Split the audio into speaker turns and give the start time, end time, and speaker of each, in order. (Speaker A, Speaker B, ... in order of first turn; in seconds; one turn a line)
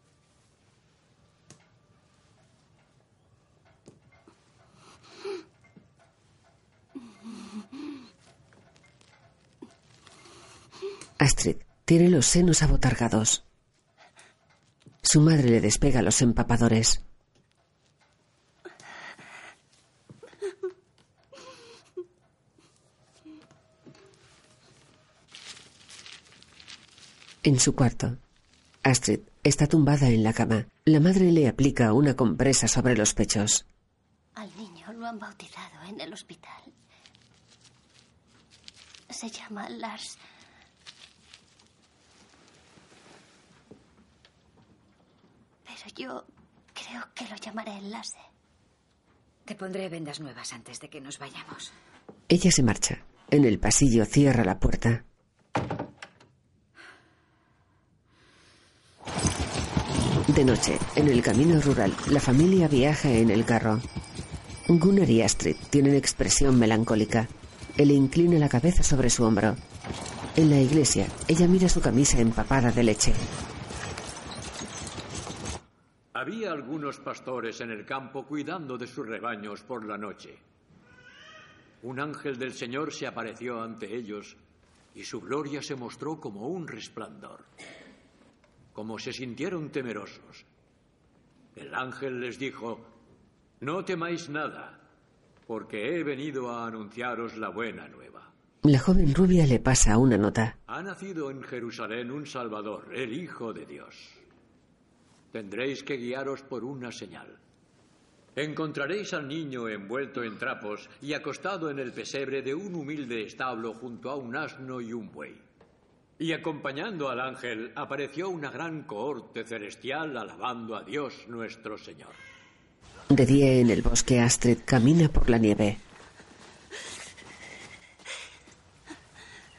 Speaker A: 11.2-13.4
Speaker A: 15.0-17.0
Speaker A: 27.4-28.2
Speaker A: 28.9-33.6
Speaker B: 34.4-36.7
Speaker B: 39.1-40.2
Speaker B: 45.7-48.2
Speaker C: 49.5-51.7
Speaker A: 52.3-55.0
Speaker A: 60.3-63.9
Speaker A: 64.7-69.6
Speaker A: 70.4-73.2
Speaker D: 76.1-80.4
Speaker D: 81.8-84.4
Speaker D: 84.9-87.5
Speaker D: 88.8-90.5
Speaker D: 91.6-92.9
Speaker D: 93.6-94.8
Speaker D: 95.5-98.3
Speaker A: 98.7-100.5
Speaker D: 100.7-104.2
Speaker D: 105.3-107.4
Speaker D: 108.4-115.5
Speaker D: 116.2-122.2
Speaker A: 123.1-125.8